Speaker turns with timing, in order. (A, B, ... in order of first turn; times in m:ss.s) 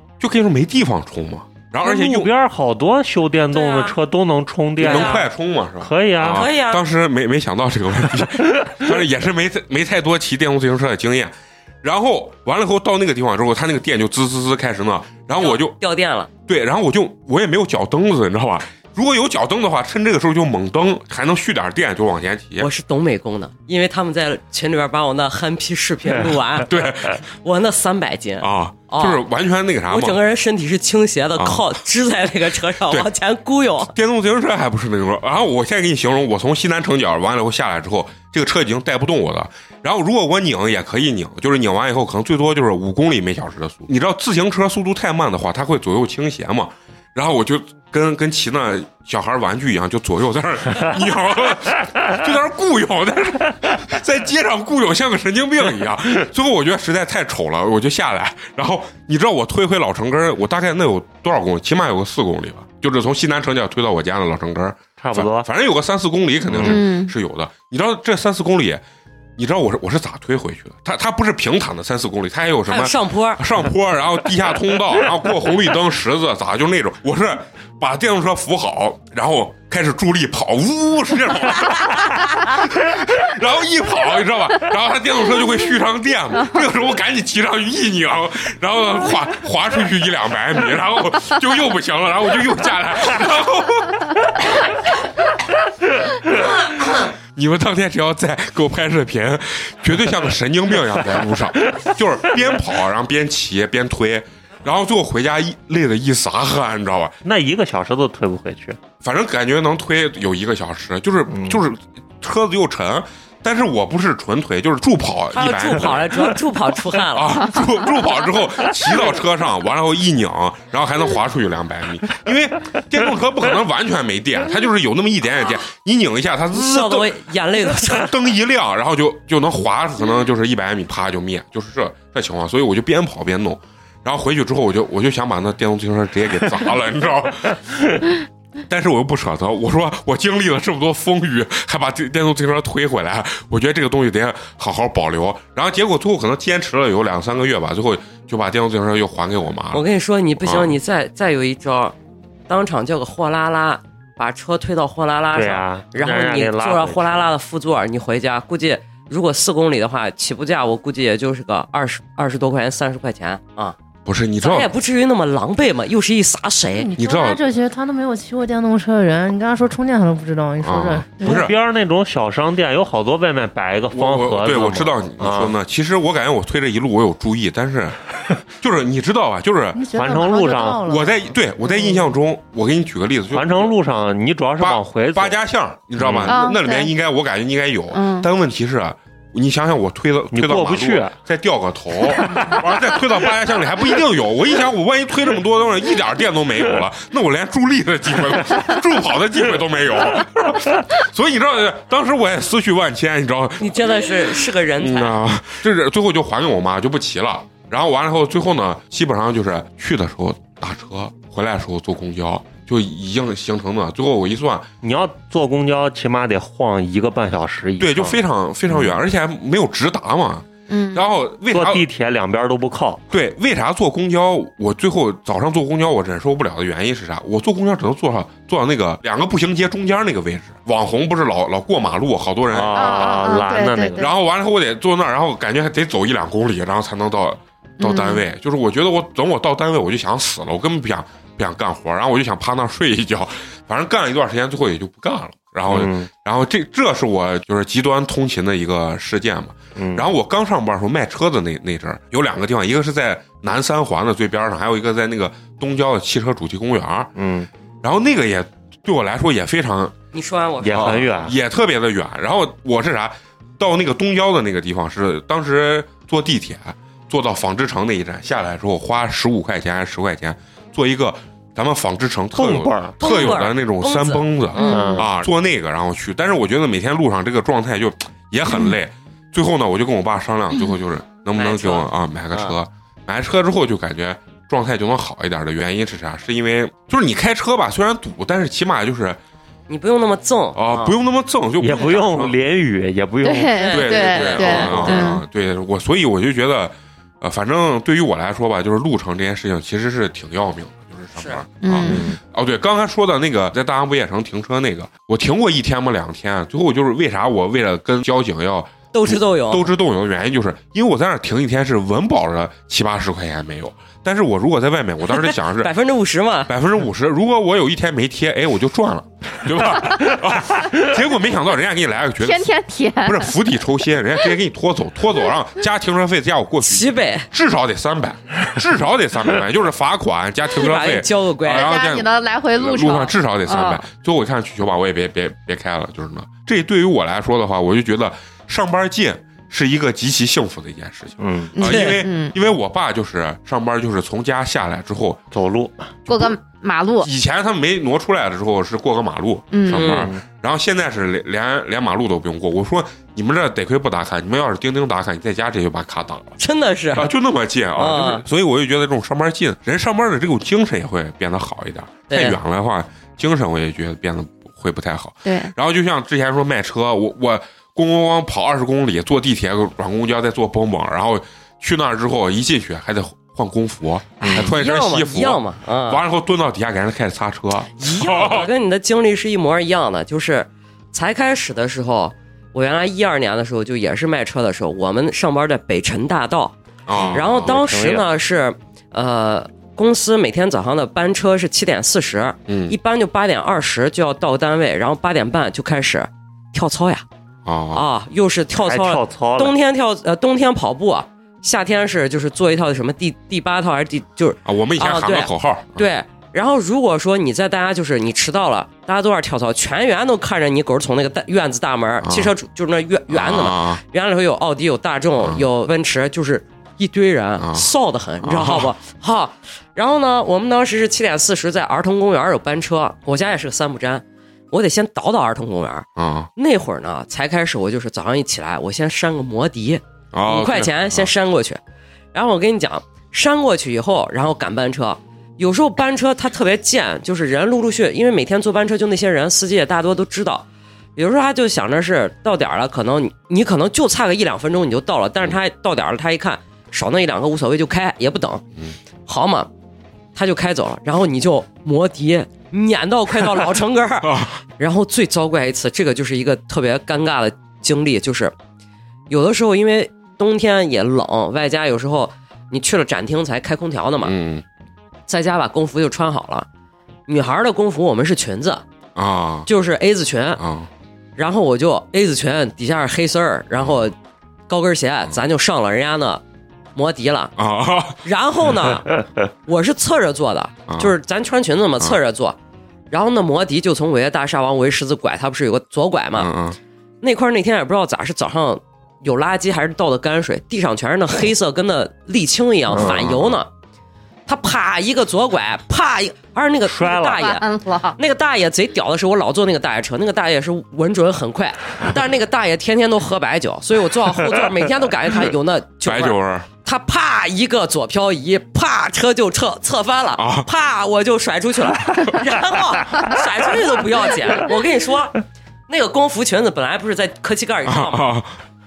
0:00.2-0:02.3 A
0:01.8-0:05.3 B
0:03.5-0:04.0 C
0:04.8-0:15.8 A
0:04.8-0:05.2 C
0:05.8-0:06.5 B
0:06.2-0:06.8 C
0:15.4-0:16.3 C
0:16.5-0:22.7 A
0:22.6-0:26.7 C
0:26.6-0:27.2 A
0:27.4-0:29.2 C
0:28.4-0:30.2 A
0:29.9-0:33.9 C
0:31.4-0:31.7 A
0:33.9-1:08.8 A
1:05.0-1:05.5 B
1:06.5-1:06.8 B
1:06.6-1:07.1 D
1:09.4-1:34.6 A
1:12.7-1:13.4 C
1:37.4-1:47.2 A
1:47.2-1:48.8 B
1:49.0-1:56.4 A
1:51.3-1:51.6 B
1:55.3-1:57.6 C
1:57.1-2:07.2 A
2:06.5-2:08.1 C
2:07.7-2:17.6 A
2:18.7-2:29.8 A
2:29.7-2:32.0 C
2:30.4-2:30.8 A
2:32.5-2:43.8 C
2:35.3-2:37.3 B
2:44.0-2:44.7 A
2:44.4-2:46.9 C
2:46.8-2:51.5 E
2:47.0-2:47.4 A
2:50.6-2:51.6 A
2:51.2-2:55.6 B
2:53.9-2:59.8 A
2:59.8-3:01.2 E
2:59.9-3:00.8 B
3:00.8-3:03.7 A
3:01.7-3:02.0 E
3:03.3-3:05.4 B
3:04.6-3:34.7 A
3:06.0-3:06.4 B
3:06.2-3:06.9 D
3:07.9-3:08.3 D
3:10.3-3:11.2 B
3:12.2-3:12.6 B
3:23.6-3:25.2 C
3:34.8-3:38.2 B
3:37.8-3:41.9 A
3:38.7-3:39.0 B
3:40.7-3:41.0 D
3:41.5-3:43.0 B
3:43.1-3:53.2 A
3:52.5-3:54.1 B
3:52.8-3:54.1 D
3:54.0-4:17.1 A
3:57.8-3:58.2 D
4:05.7-4:06.1 B
4:09.8-4:10.1 B
4:17.2-4:17.5 B
4:17.8-4:20.0 A
4:20.1-4:21.1 C
4:20.6-4:21.4 B
4:20.7-4:49.2 A
4:32.4-4:33.4 B
4:33.0-4:34.8 C
4:34.6-4:35.0 D
4:34.6-4:35.1 B
4:41.4-4:42.5 C
4:49.7-4:51.0 C
4:50.6-4:52.4 A
4:51.6-4:55.0 B
4:53.2-4:55.2 D
4:53.5-4:55.2 C
4:53.7-5:15.7 A
5:01.2-5:01.4 C
5:01.6-5:02.1 D
5:01.8-5:02.2 B
5:08.9-5:09.7 C
5:15.2-5:16.5 C
5:16.5-5:45.2 A
5:22.2-5:23.3 D
5:26.6-5:27.3 C
5:30.5-5:31.7 C
5:31.5-5:33.8 D
5:41.2-5:41.6 B
5:41.6-5:42.3 D
5:41.6-5:42.0 C
5:45.3-5:45.9 B
5:46.1-5:46.4 A
5:46.1-5:47.1 D
5:47.0-5:56.4 A
5:49.5-5:50.0 D
5:49.7-5:50.1 C
5:49.9-5:50.2 B
5:56.4-5:57.1 C
5:56.9-6:18.5 A
5:57.8-5:58.2 C
6:02.1-6:02.4 C
6:05.2-6:05.5 D
6:14.3-6:16.0 C
6:17.8-6:26.6 C
6:26.9-6:27.6 A
6:27.0-6:28.0 B
6:27.1-6:37.1 C
6:32.5-6:32.8 A
6:37.4-6:37.8 A
6:37.7-7:11.6 C
6:38.6-6:39.6 B
6:44.4-6:45.9 A
6:52.0-6:52.3 A
6:53.1-6:53.8 A
6:57.4-6:57.7 A
6:58.2-6:58.7 A
7:06.0-7:06.3 A
7:10.1-7:11.1 A
7:12.1-7:28.4 C
7:29.1-7:29.5 C
7:30.2-7:38.4 C
7:34.0-7:34.4 A
7:39.1-7:44.2 C
7:44.0-7:44.4 A
7:45.1-7:46.5 C
7:47.1-7:48.6 C
7:49.0-7:49.5 A
7:49.5-7:50.4 C
7:50.4-7:50.7 A
7:51.2-7:54.0 C
7:54.5-7:56.2 C
7:56.8-7:57.3 C
7:57.4-7:58.0 A
7:58.0-8:02.4 C
8:00.7-8:00.9 A
8:02.9-8:06.3 C
8:06.2-8:06.6 A
8:07.0-8:13.5 C
8:12.7-8:13.4 A
8:14.3-8:17.4 C
8:16.7-8:17.3 B
8:17.2-8:18.0 D
8:18.0-8:35.2 C
8:25.8-8:26.5 A
8:30.2-8:30.5 A
8:35.7-8:38.1 C
8:37.7-8:38.3 A